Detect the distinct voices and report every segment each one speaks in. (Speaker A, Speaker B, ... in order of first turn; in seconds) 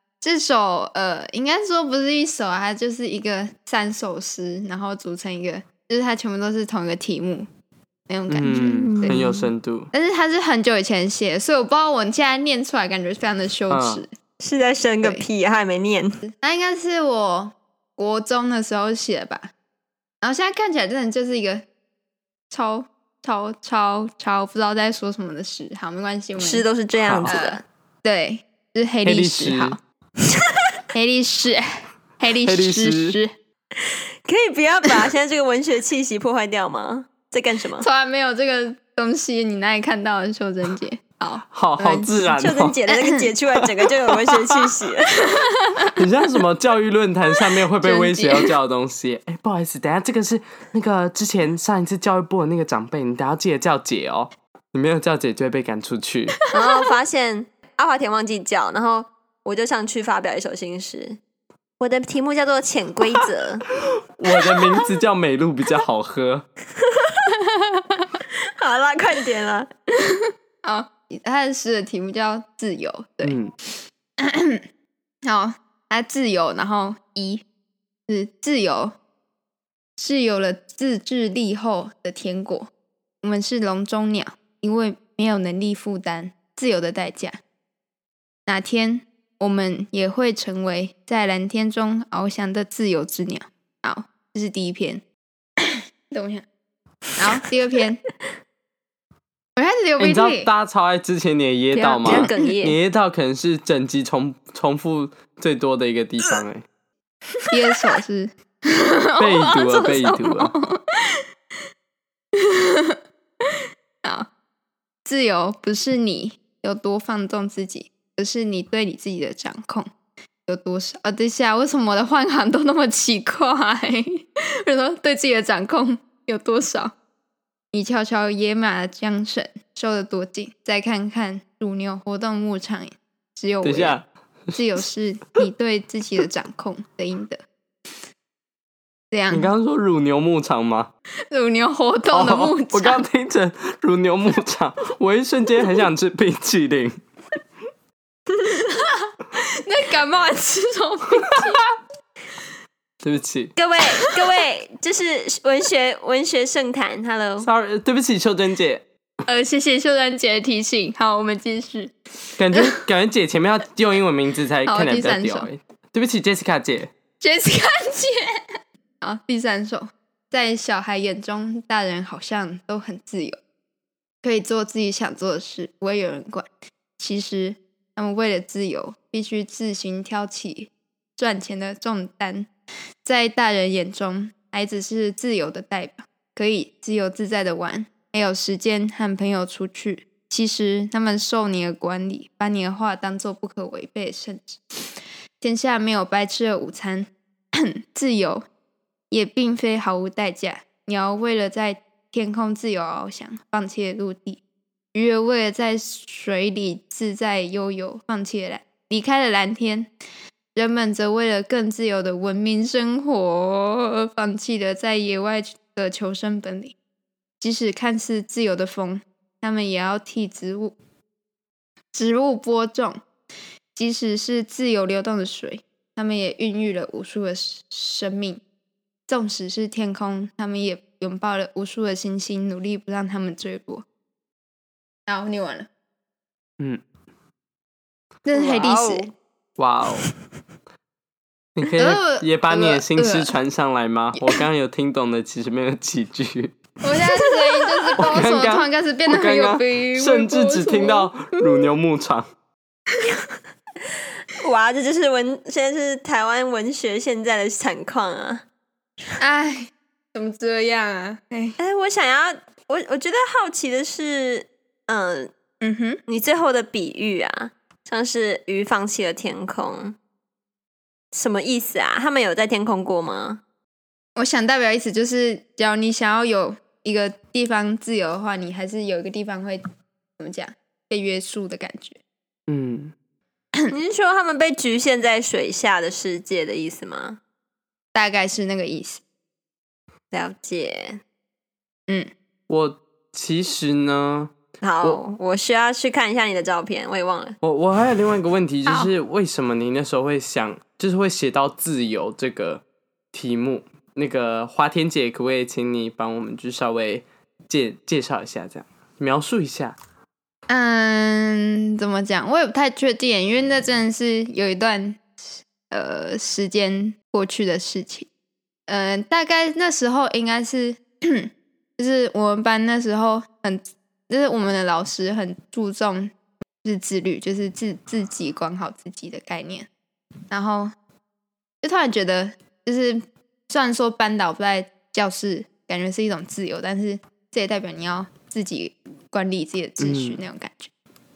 Speaker A: 0.2-7.5, 8.1-9.3, 9.9-14.1, 16.2-19.5, 20.2-21.6, 22.5-26.6, 27.3-29.8, 30.9-33.3, 37.8-42.3, 42.9-43.3, 45.2-45.9, 47.8-48.5, 67.4-68.2, 70.6-73.4, 74.2-74.6, 75.2-77.4, 78.1-78.9, 80.0-82.7, 83.2-87.4, 88.5-95.0, 95.6-96.4, 97.2-98.0, 99.6-100.5, 102.1-102.4, 107.5-111.2, 112.4-113.0, 115.0-119.9, 120.5-126.9, 127.7-134.0, 134.5-137.4, 139.1-139.5, 141.3-143.0, 148.4-151.6, 159.2-161.9, 162.5-162.8, 164.7-165.5, 167.2-168.4, 169.0-173.4, 174.2-176.5, 177.0-182.5, 183.0-194.6, 195.4-198.4, 199.1-204.4, 204.9-209.9, 210.5-216.7, 217.4-220.7, 221.9-223.0, 223.7-228.4, 229.1-233.8, 235.1-235.7, 238.2-239.1, 241.8-243.3, 246.8-251.1, 259.2-261.6, 265.6-266.0, 274.1-279.6, 280.2-282.0, 287.9-289.0, 298.6-298.9, 310.5-318.1, 318.7-326.1, 326.6-329.7, 330.3-330.7, 331.6-340.7
Speaker B: 8.3-9.9, 13.7-14.0, 27.0-27.3, 29.0-29.8, 32.4-33.2, 41.5-42.8, 46.0-56.4, 64.1-66.5, 73.2-73.5, 100.0-106.6, 109.2-110.5, 133.6-134.5, 139.3-140.9, 142.1-146.9, 153.0-153.5, 157.4-158.8, 162.4-166.9, 239.6-240.1, 241.6-246.6, 248.0-252.2, 282.5-282.9, 292.5-295.0, 297.4-309.8, 339.8-340.2
Speaker C: 8.5-9.4, 14.4-16.2, 26.4-27.6, 33.8-37.9, 42.4-45.2, 56.5-61.2, 61.8-63.7, 66.8-67.3, 68.4-69.7, 101.7-102.8, 107.4-107.7, 153.6-157.5, 238.3-239.1, 254.3-258.4, 261.6-265.3, 266.1-270.0, 271.1-273.4, 283.7-287.2, 290.1-291.0, 294.6-297.4